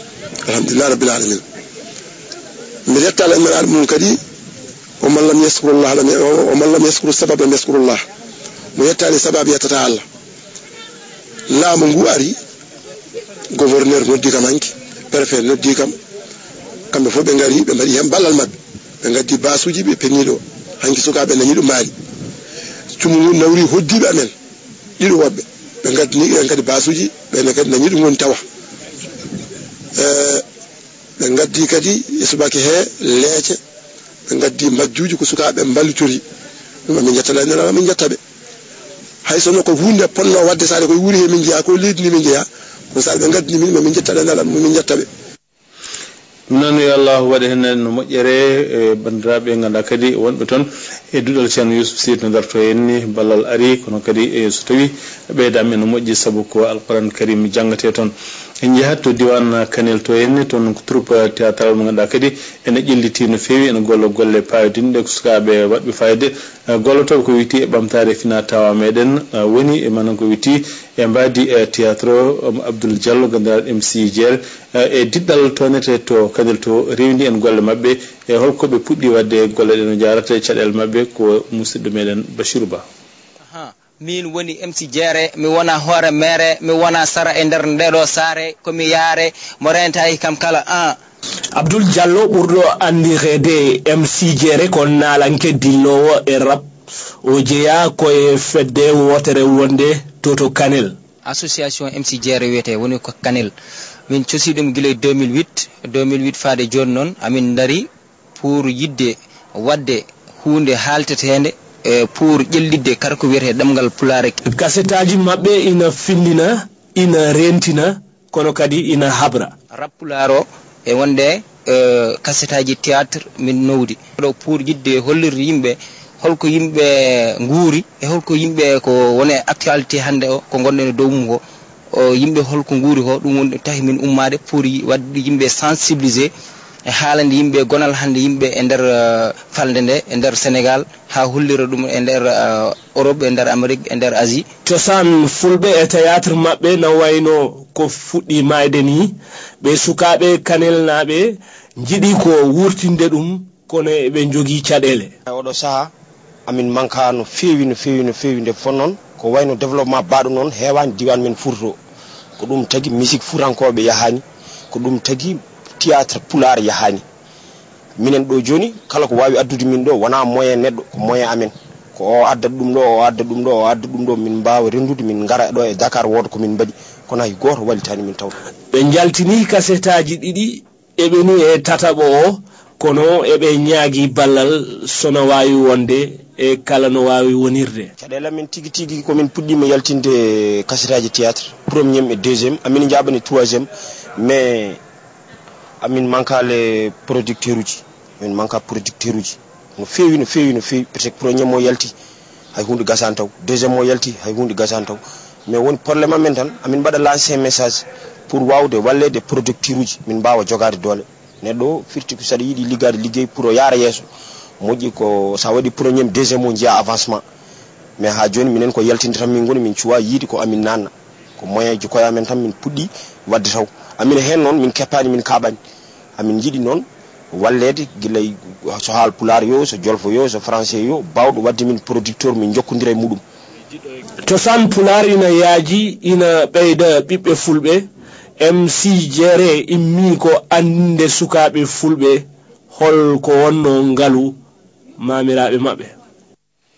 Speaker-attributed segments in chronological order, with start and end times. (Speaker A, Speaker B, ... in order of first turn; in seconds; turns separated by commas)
Speaker A: 0.5-1.4, Speaker A: 2.9-4.2, Speaker A: 5.0-8.0, Speaker A: 8.8-10.0, Speaker A: 11.5-12.4, Speaker A: 13.6-15.9, Speaker A: 16.9-21.9, Speaker A: 23.0-24.3, Speaker A: 25.0-28.4, Speaker A: 30.0-30.4, Speaker A: 31.2-33.6, Speaker A: 34.3-36.2, Speaker A: 36.9-38.2, Speaker A: 39.3-42.5, Speaker A: 43.0-45.1, Speaker B: 46.5-82.9, Speaker C: 83.5-91.0, Speaker D: 91.5-96.7, Speaker D: 97.2-101.0, Speaker C: 101.2-103.5, Speaker C: 104.1-114.4, Speaker D: 114.5-119.5, Speaker C: 119.7-136.3, Speaker C: 136.9-144.5, Speaker D: 144.7-155.1, Speaker E: 155.3-155.9, Speaker E: 156.5-161.8, Speaker E: 162.4-167.0, Speaker E: 168.0-178.3, Speaker D: 178.7-187.9, Speaker E: 188.0-194.8, Speaker E: 195.8-201.9, Speaker E: 202.5-214.1, Speaker E: 214.6-217.2, Speaker E: 218.0-225.6, Speaker E: 226.2-233.2, Speaker D: 234.2-237.9, Speaker D: 238.4-244.4, Speaker D: 245.0-245.9